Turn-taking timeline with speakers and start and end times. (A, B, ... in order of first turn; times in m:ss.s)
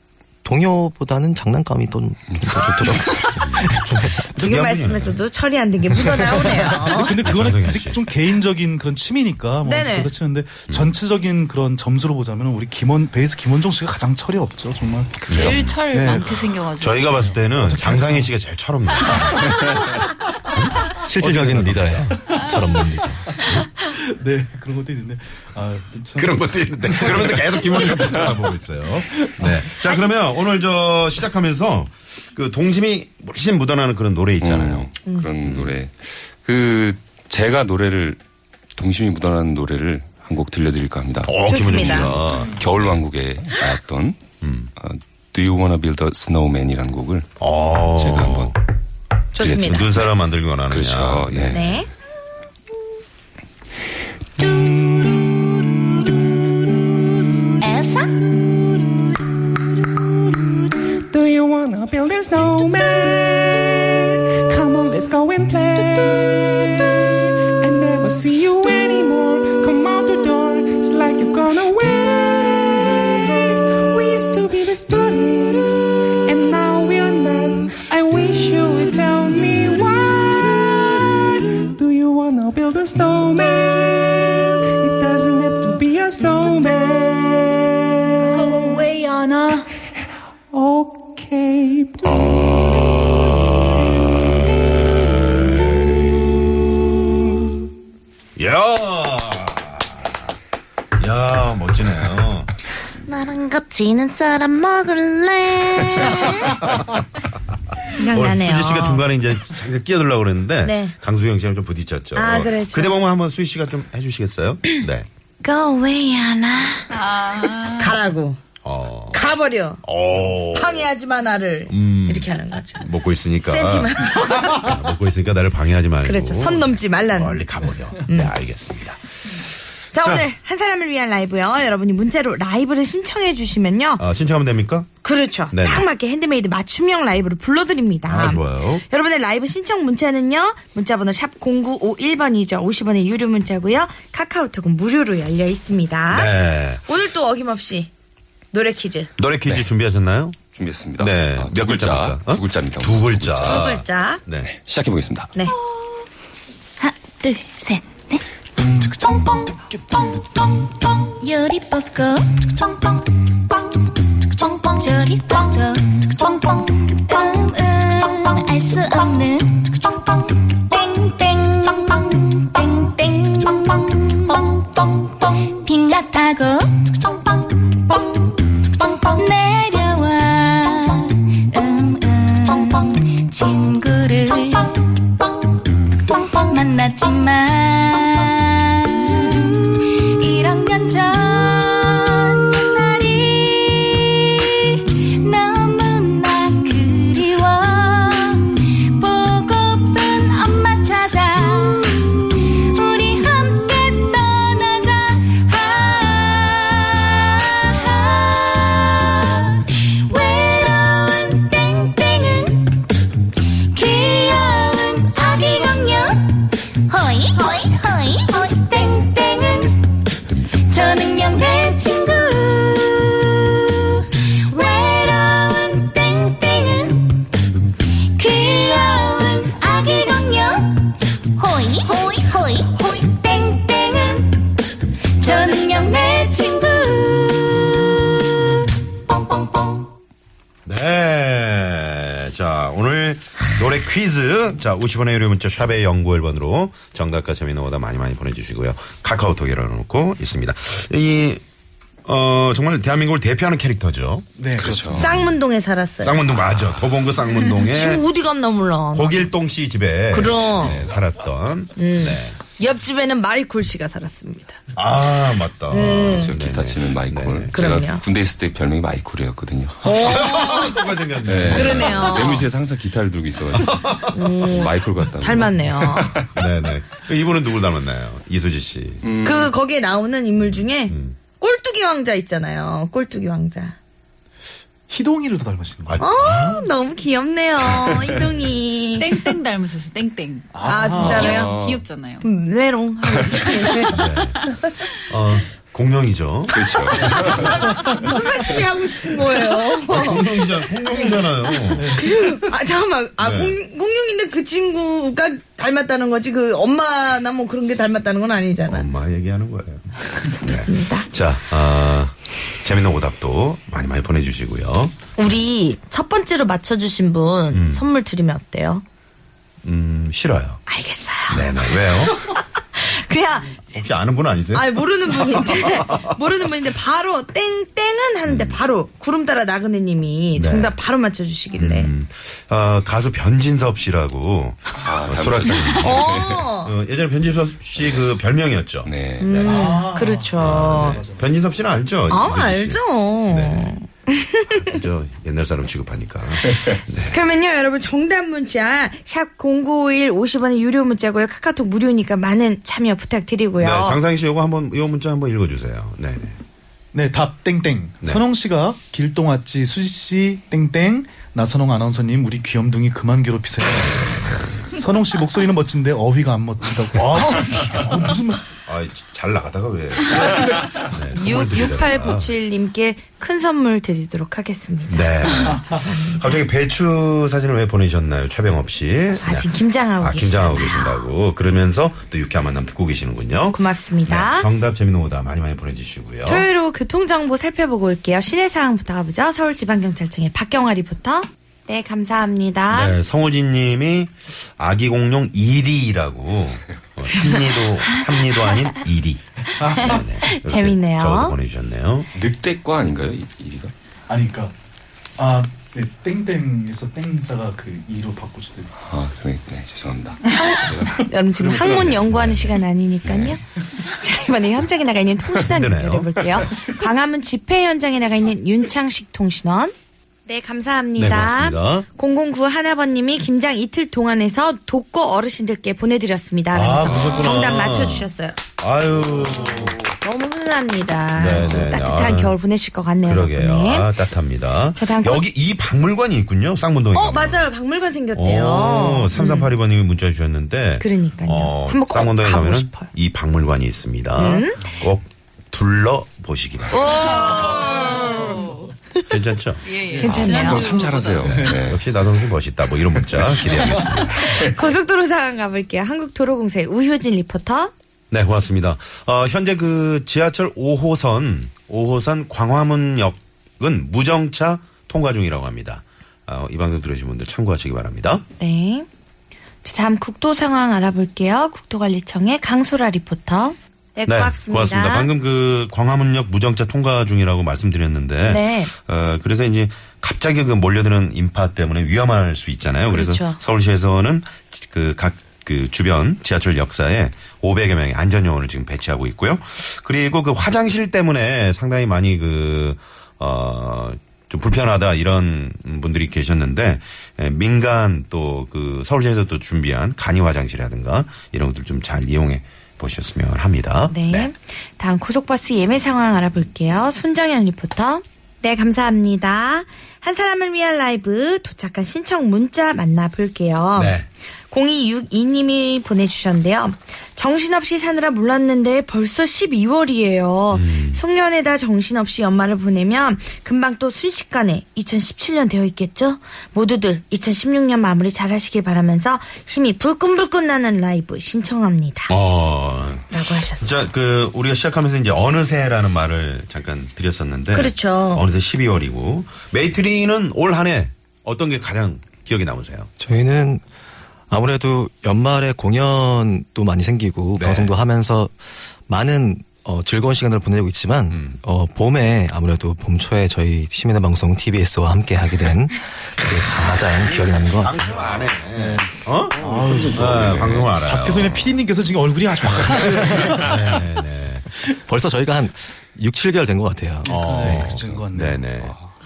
0:00.4-0:04.2 A
0:02.3-0:02.6 B
0:03.6-0:05.2 C
0:04.4-0:07.1 D
0:06.9-0:16.5 E
0:07.2-0:08.1 C
0:09.6-0:10.1 D
0:10.7-0:10.9 C
0:15.3-0:17.4 F
0:15.3-0:15.8 C
0:16.8-0:19.8 C
0:17.6-0:18.3 E
0:20.6-0:22.3 C
0:21.0-0:23.2 A
0:23.4-0:28.4 E
0:26.2-0:34.9 C
0:34.4-0:38.2 B
0:35.4-0:35.7 C
0:38.8-0:44.2 B
0:41.2-0:43.0 C
0:41.5-0:42.1 D
0:44.4-0:44.7 C
0:44.8-0:47.3 B
0:47.4-0:48.6 C
0:48.0-0:48.5 B
0:49.4-0:49.9 D
0:49.4-0:50.0 B
0:49.4-0:51.8 C
0:50.7-0:51.7 B
0:51.5-0:51.9 D
0:54.4-0:56.8 G
0:57.6-0:59.1 G
1:01.0-1:27.7 H
1:30.5-1:32.6 H
1:38.4-1:40.2 C
1:41.0-1:42.5 C
1:43.1-1:46.5 D
1:46.5-1:47.3 C
1:47.9-1:49.0 D
1:48.1-1:55.1 C
1:50.6-1:51.0 D
1:52.2-1:53.0 D
1:55.4-1:56.9 D
1:56.9-1:58.0 F
1:57.8-1:58.4 D
1:58.6-1:59.2 C
1:59.1-1:59.8 D
1:59.8-2:00.9 C
2:00.5-2:02.9 D
2:01.7-2:09.4 C
2:03.4-2:04.7 D
2:06.0-2:07.4 D
2:08.0-2:08.3 D
2:09.9-2:14.0 D
2:10.0-2:10.2 C
2:14.0-2:14.9 C
2:15.0-2:27.9 D
2:15.5-2:15.9 C
2:18.1-2:18.8 C
2:26.1-2:26.8 C
2:28.5-2:29.1 D
2:29.2-2:30.4 C
2:30.5-2:33.7 B
2:31.0-2:34.5 C
2:33.4-2:34.2 D
2:34.5-2:35.3 B
2:36.8-2:38.2 G
2:41.0-2:42.6 G
2:44.4-2:49.9 G
2:50.6-2:58.3 G
2:59.0-3:05.0 G
3:06.3-3:32.8 G
3:33.7-3:39.8 G
3:40.7-3:47.2 G
3:48.2-3:54.5 G
3:55.2-3:59.9 G
4:00.7-4:11.4 C
4:12.0-4:14.3 C
4:14.4-4:15.2 E
4:14.6-4:15.2 B
4:14.9-4:16.2 D
4:16.0-4:18.1 C
4:17.6-4:19.3 D
4:18.9-4:22.4 C
4:20.1-4:20.8 D
4:21.8-4:24.6 D
4:24.7-4:27.7 C
4:25.7-4:26.3 D
4:25.9-4:30.0 B
4:27.5-4:28.0 D
4:29.8-4:30.8 D
4:29.9-4:32.4 C
4:31.3-4:36.3 B
4:31.5-4:32.5 D
4:33.6-4:34.3 C
4:34.1-4:36.2 D
4:36.3-4:39.0 C
4:39.0-4:39.5 B
4:39.2-4:43.8 D
4:40.9-4:41.2 C
4:44.9-4:46.1 E
4:45.9-4:46.7 C
4:46.0-4:49.2 D
4:49.0-4:52.3 F
4:50.5-4:51.4 E
4:50.7-4:51.7 D
4:51.0-4:51.8 B
4:52.2-4:54.0 D
4:53.9-4:57.6 C
4:56.5-4:57.6 B
4:57.1-5:00.3 D
4:57.9-4:58.1 E
4:59.8-5:02.0 C
5:01.8-5:02.4 E
5:01.9-5:08.9 D
5:03.2-5:03.6 C
5:08.7-5:15.0 C
5:10.4-5:11.1 D
5:15.2-5:18.8 D
5:17.5-5:17.8 C
5:19.6-5:20.6 C
5:20.7-5:23.7 D
5:21.3-5:22.2 C
5:23.7-5:26.2 C
5:24.5-5:31.9 D
5:28.2-5:28.6 C
5:30.4-5:30.8 C
5:31.5-5:39.7 C
5:34.8-5:36.4 B
5:35.8-5:36.7 D
5:37.8-5:38.0 B
5:38.8-5:39.5 B
5:39.2-5:41.0 D
5:39.4-5:41.3 E
5:40.4-5:43.8 C
5:42.1-5:44.7 D
5:44.5-5:47.2 C
5:47.0-5:54.0 D
5:53.6-5:56.4 C
5:56.9-6:08.5 E
6:08.7-6:12.3 C
6:11.2-6:16.4 D
6:14.9-6:26.5 C
6:19.2-6:21.0 D
6:23.5-6:24.5 D
6:26.3-6:33.0 D
6:32.7-6:42.1 C
6:39.6-6:40.0 E
6:39.8-6:41.4 D
6:42.2-6:43.7 B
6:44.1-6:44.5 E
6:45.2-6:48.7 E
6:48.8-6:52.3 B
6:51.0-6:59.7 D
6:51.8-6:52.6 C
6:53.0-6:53.4 B
6:55.4-6:56.5 C
7:00.3-7:08.4 D
7:01.0-7:01.9 C
7:06.5-7:09.8 C
7:10.0-7:13.9 D
7:11.2-7:12.4 C
7:13.0-7:17.5 C
7:14.8-7:15.2 D
7:16.9-7:19.5 D
7:18.2-7:27.1 C
7:20.8-7:22.9 D
7:24.2-7:24.6 D
7:26.7-7:28.0 D
7:27.1-7:28.6 F
7:28.1-7:28.5 E
7:29.1-7:29.7 C
7:29.6-7:31.6 F
7:29.8-7:30.2 E
7:30.0-7:30.7 D
7:30.1-7:31.8 B
7:31.2-7:34.5 C
7:34.1-7:37.7 D
7:38.1-7:48.2 C
7:48.4-7:48.9 D
7:49.6-7:55.1 D
7:54.1-8:24.3 C
7:58.2-7:58.7 D
8:02.9-8:03.4 D
8:23.9-8:34.0 D
8:33.8-8:34.1 C
8:34.5-8:52.1 D
8:40.5-8:41.0 C
8:52.1-9:02.9 C
8:53.1-8:53.8 D
8:57.5-8:58.2 D
9:03.0-9:03.6 A
9:04.3-9:08.4 A
9:07.4-9:07.7 C
9:08.9-9:17.8 A
9:11.1-9:11.4 C
9:17.0-9:21.4 C
9:18.5-9:23.7 E
9:19.4-9:20.8 B
9:22.6-9:24.4 C
9:22.8-9:23.4 B
9:24.9-9:27.6 A
9:27.0-9:28.4 E
9:27.0-9:28.8 C
9:28.6-9:28.9 B